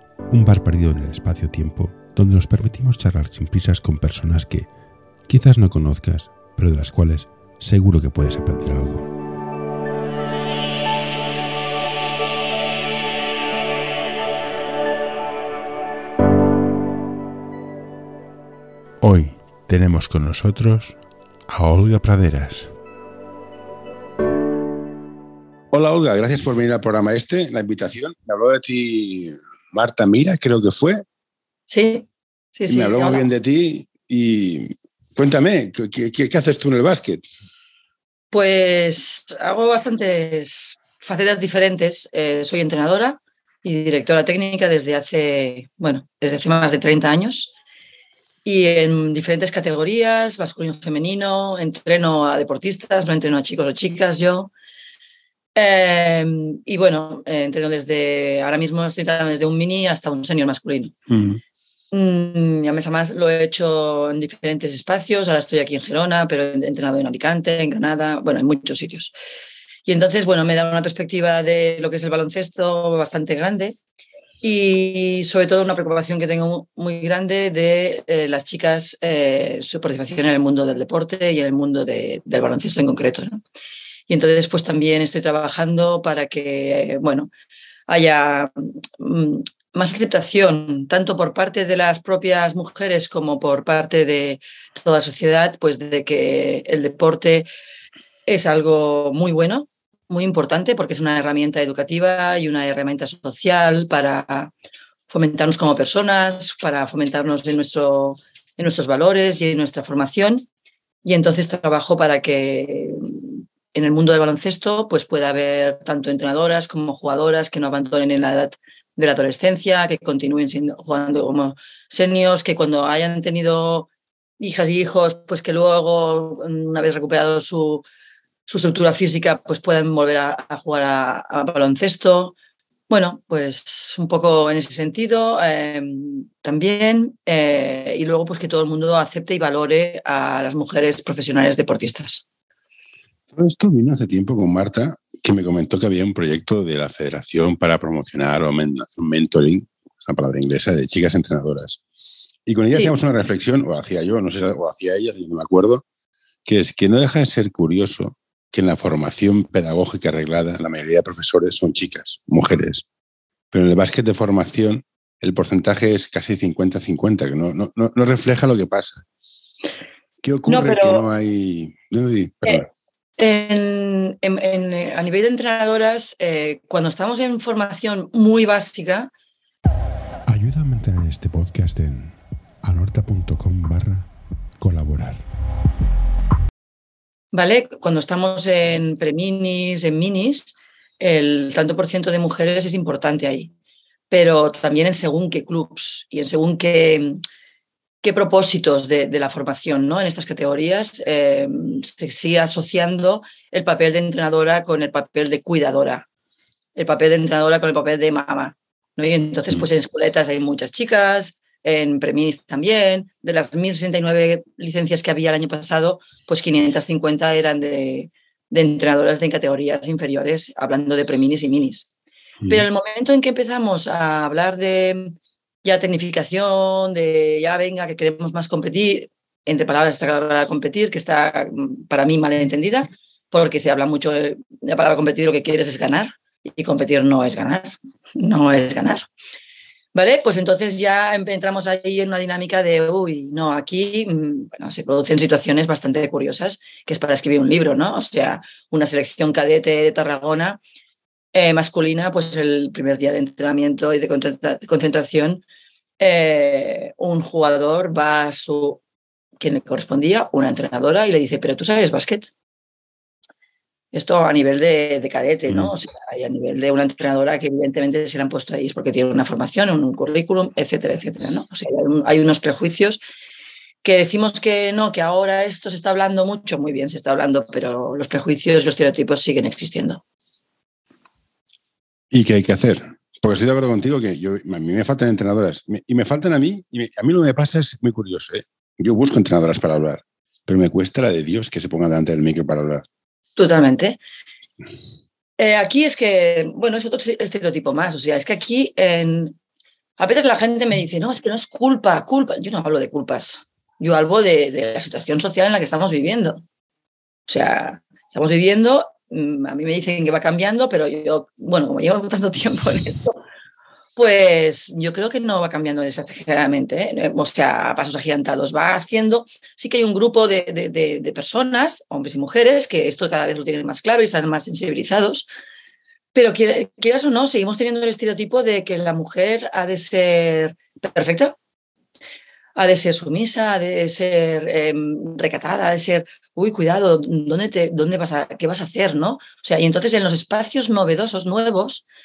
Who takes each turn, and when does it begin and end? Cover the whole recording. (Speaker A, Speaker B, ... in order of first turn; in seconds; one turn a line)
Speaker A: 0.3-4.7
Speaker A: 5.3-9.1
Speaker A: 19.0-22.7
Speaker B: 25.7-31.0
Speaker C: 31.7-33.3
Speaker B: 32.7-37.2
Speaker C: 38.3-47.5
Speaker C: 48.5-54.5
Speaker C: 55.5-60.9
Speaker B: 61.1-61.4
Speaker C: 61.9-69.2
Speaker C: 69.9-73.8
Speaker C: 74.4-83.4
Speaker C: 84.1-87.3
Speaker C: 87.9-97.5
Speaker C: 98.3-104.5
Speaker C: 105.1-110.5
Speaker C: 111.0-127.8
Speaker C: 128.5-132.3
Speaker C: 132.9-142.2
Speaker B: 143.3-151.8
Speaker B: 152.5-155.8
Speaker B: 156.4-162.8
Speaker B: 163.5-169.0
Speaker B: 170.2-172.7
Speaker C: 170.5-171.1
Speaker C: 173.2-179.1
Speaker A: 180.3-184.1
Speaker A: 184.6-185.2
Speaker C: 187.3-193.5
Speaker C: 194.1-197.2
Speaker C: 198.0-206.1
Speaker C: 206.8-221.9
Speaker C: 222.5-239.1
Speaker C: 239.9-250.6
Speaker C: 251.3-255.4
Speaker C: 256.0-258.8
Speaker C: 259.4-262.3
Speaker C: 263.9-273.0
Speaker C: 273.8-280.0
Speaker B: 282.1-292.9
Speaker C: 293.4-294.0
Speaker C: 295.4-299.4
Speaker C: 300.0-306.4
Speaker C: 307.3-313.2
Speaker C: 314.0-325.3
Speaker C: 326.1-331.3
Speaker C: 332.6-341.9